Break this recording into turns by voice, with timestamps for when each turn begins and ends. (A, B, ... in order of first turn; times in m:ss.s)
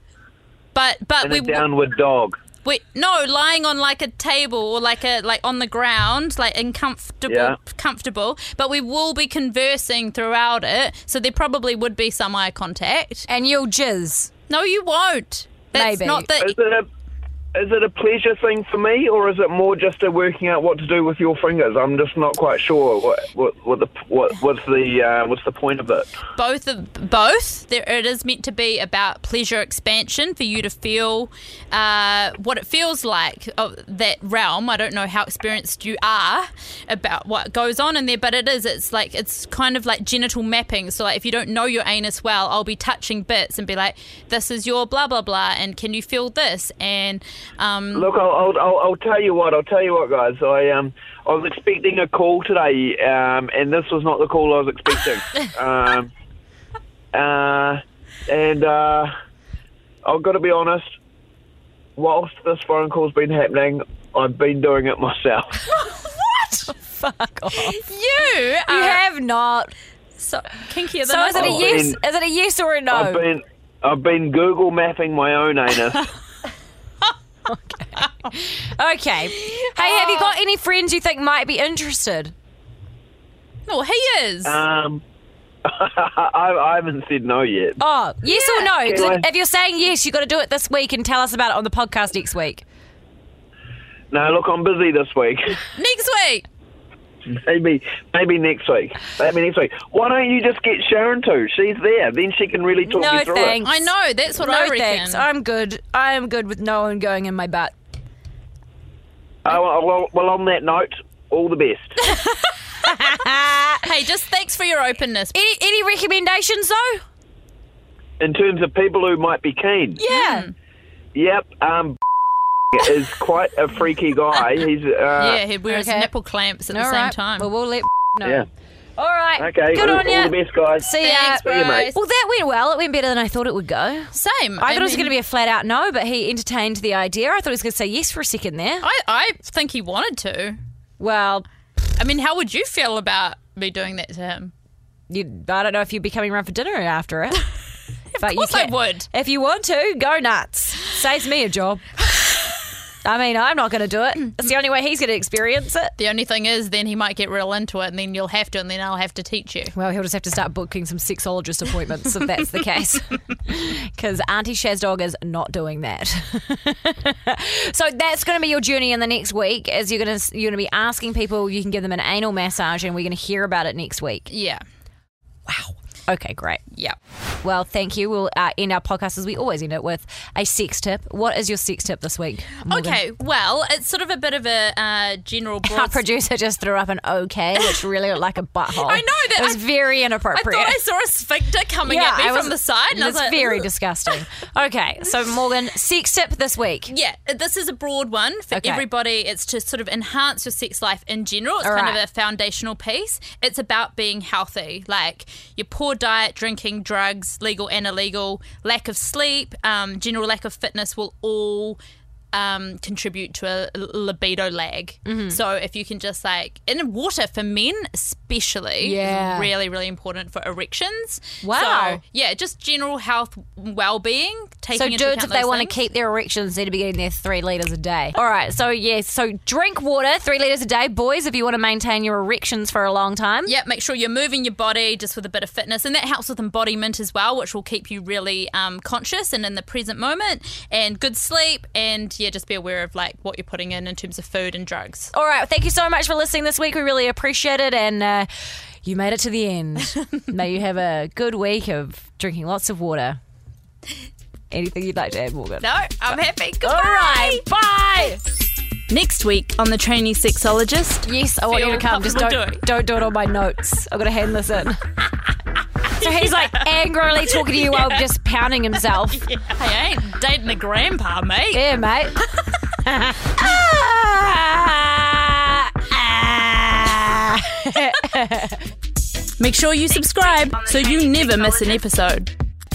0:00.7-0:01.6 A
0:01.2-0:02.4 B
0:02.6-0:13.3 A
0:07.3-0:07.6 B
0:13.3-0:14.3 C
0:14.5-0:16.6 A
0:15.7-0:16.3 C
0:16.4-0:16.8 B
0:17.5-0:26.1 B
0:26.4-0:48.1 A
0:47.9-0:56.1 B
0:57.1-0:59.1 B
1:00.0-1:00.8 B
1:02.0-1:05.6 B
1:06.2-1:07.8 C
1:07.5-1:09.0 A
1:08.7-1:09.7 C
1:10.2-1:11.8 A
1:11.0-1:13.2 C
1:11.4-1:12.0 B
1:12.9-1:16.1 B
1:17.4-1:22.3 C
1:18.0-1:18.3 A
1:19.3-1:20.3 A
1:23.7-1:24.6 A
1:24.4-1:25.0 B
1:25.6-1:27.8 B
1:27.8-1:32.6 C
1:28.3-1:28.7 A
1:28.6-1:29.2 B
1:34.1-1:35.6 B
1:35.7-1:36.4 A
1:37.3-1:43.6 B
1:42.8-1:47.7 C
1:43.6-1:45.2 A
1:49.4-1:52.0 B
1:52.0-1:52.4 A
1:52.8-1:53.9 C
1:53.8-1:55.4 A
1:55.3-1:57.0 C
1:58.2-2:00.0 B
2:00.0-2:00.5 C
2:00.0-2:00.5 A
2:01.1-2:02.0 B
2:02.7-2:05.4 B
2:05.2-2:07.5 A
2:05.7-2:06.1 C
2:06.7-2:08.4 C
2:09.0-2:18.8 C
2:09.4-2:11.9 B
2:11.0-2:12.0 A
2:14.1-2:15.1 A
2:18.8-2:20.6 A
2:21.0-2:21.4 C
2:22.0-2:24.5 A
2:25.1-2:27.5 C
2:28.1-2:29.1 A
2:28.2-2:31.8 C
2:33.0-2:35.9 C
2:36.0-2:39.7 A
2:39.7-2:54.3 C
2:54.3-2:54.6 A
2:55.5-2:56.6 C
2:56.7-2:57.0 A
2:57.4-3:03.0 C
3:02.7-3:06.0 A
3:05.6-3:10.8 C
3:08.8-3:09.6 A
3:10.3-3:13.7 A
3:11.8-3:16.9 C
3:16.9-3:31.8 A
3:18.5-3:18.8 C
3:21.6-3:22.0 C
3:32.3-3:45.8 A
3:35.0-3:35.4 C
3:38.8-3:39.5 C
3:41.4-3:42.0 C
3:44.7-3:53.5 C
3:53.4-4:05.1 A
4:05.1-4:08.3 C
4:08.8-4:13.2 C
4:14.5-4:18.2 C
4:15.6-4:17.4 A
4:18.9-4:22.6 A
4:21.0-4:24.9 C
4:25.8-4:29.2 C
4:26.0-4:26.7 A
4:27.5-4:27.8 A
4:29.2-4:31.6 A
4:31.5-4:32.2 C
4:32.8-4:38.6 C
4:39.4-4:42.3 A